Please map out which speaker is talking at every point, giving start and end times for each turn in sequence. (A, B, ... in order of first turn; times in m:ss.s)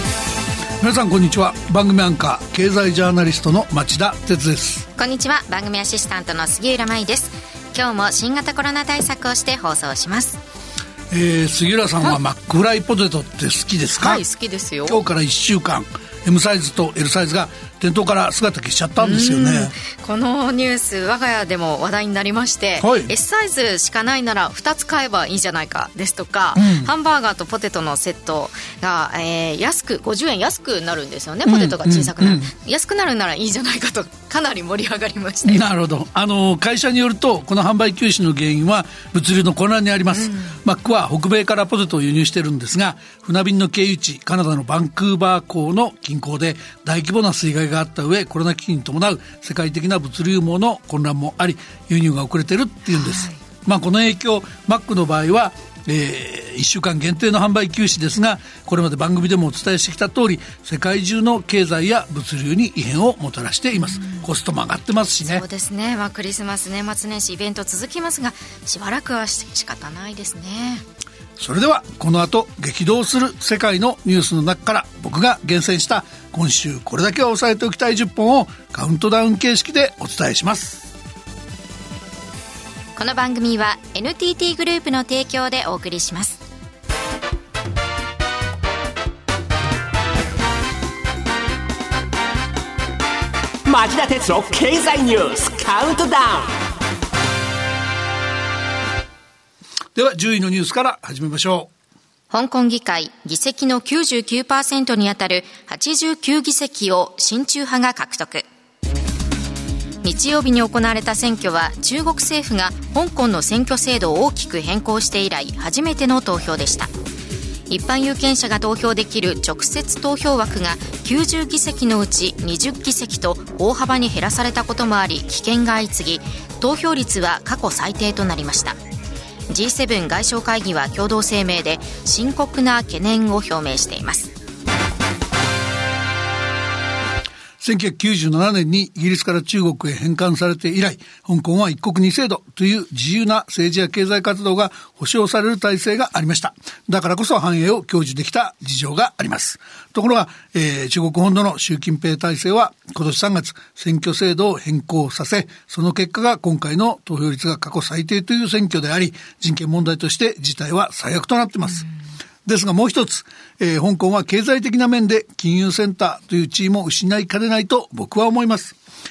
0:00.8-0:04.8 A
0:04.9-0:10.4 B
0:11.1-0:14.2 A
0:13.9-0:15.0 B
0:14.9-0:19.8 A
0:19.0-0:35.6 B
0:22.8-0:23.1 A
0:26.6-0:26.9 A
0:31.4-0:32.5 A
0:35.4-1:05.4 A
0:40.2-0:40.6 B
0:52.9-0:53.4 B
1:03.8-1:04.2 B
1:05.2-1:10.8 B
1:11.4-1:20.9 A
1:23.0-1:26.4 B
1:33.6-1:36.5 C
1:39.9-1:41.7 A
1:42.3-1:48.5 B
1:50.0-1:56.9 B
1:57.7-2:08.8 B
2:09.5-2:14.3 B
2:17.6-2:41.8 A
2:42.4-2:48.8 A